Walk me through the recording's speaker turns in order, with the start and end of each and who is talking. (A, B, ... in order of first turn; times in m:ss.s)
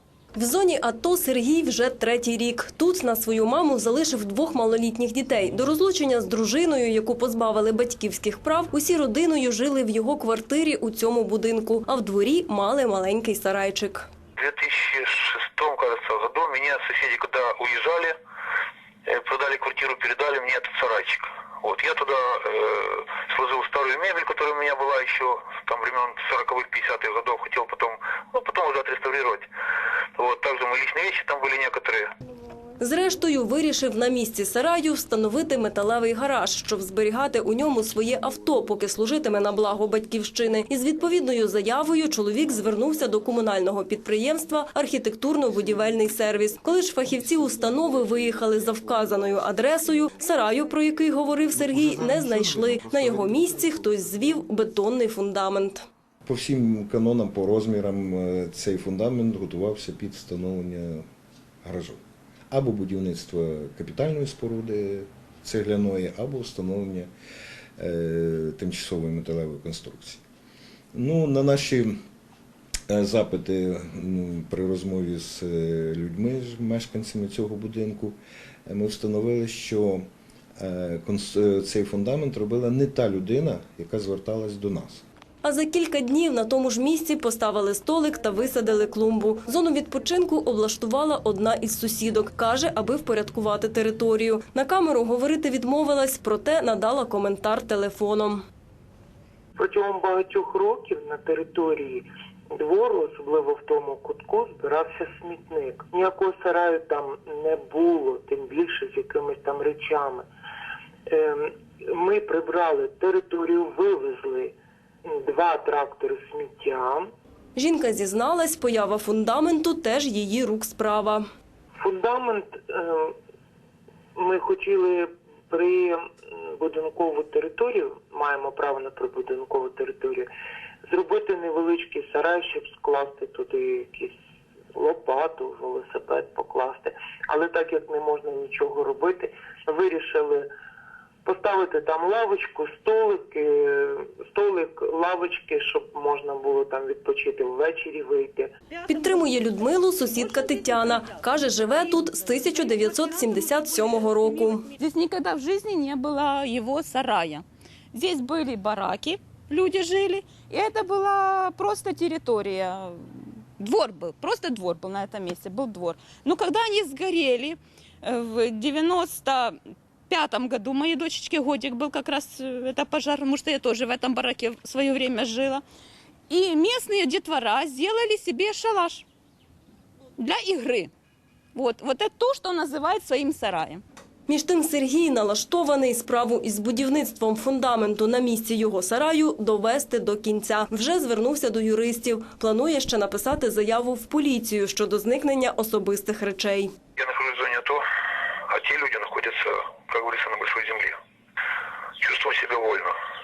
0:00.3-0:14.1 A
0:14.4-0:18.2 B
0:19.0-0:29.4 B
0:30.2-0:32.1 B
0:32.8-0:55.8 A
0:56.2-1:01.0 C
1:01.6-1:02.0 C
1:02.5-1:07.1 C
1:07.8-1:10.2 C
1:10.9-1:12.0 C
1:12.9-1:20.0 C
1:20.6-1:25.0 C
1:25.4-1:38.4 A
1:39.6-1:50.2 D
1:51.1-1:54.5 D
1:55.0-1:57.1 D
1:57.6-2:01.2 A
2:01.8-2:03.1 D
2:04.2-2:10.3 D
2:10.9-2:14.1 D
2:14.7-2:20.5 D
2:21.2-2:28.5 D
2:28.8-2:29.4 E
2:28.9-2:34.7 A
2:30.4-2:31.0 E
2:32.0-2:49.6 E
2:50.1-2:55.6 E
2:56.3-2:59.0 E
3:00.2-3:00.9 E
3:01.5-3:03.8 E
3:04.3-3:16.7 A
3:17.0-3:17.8 B
3:18.5-3:21.0 B
3:22.0-3:22.9 B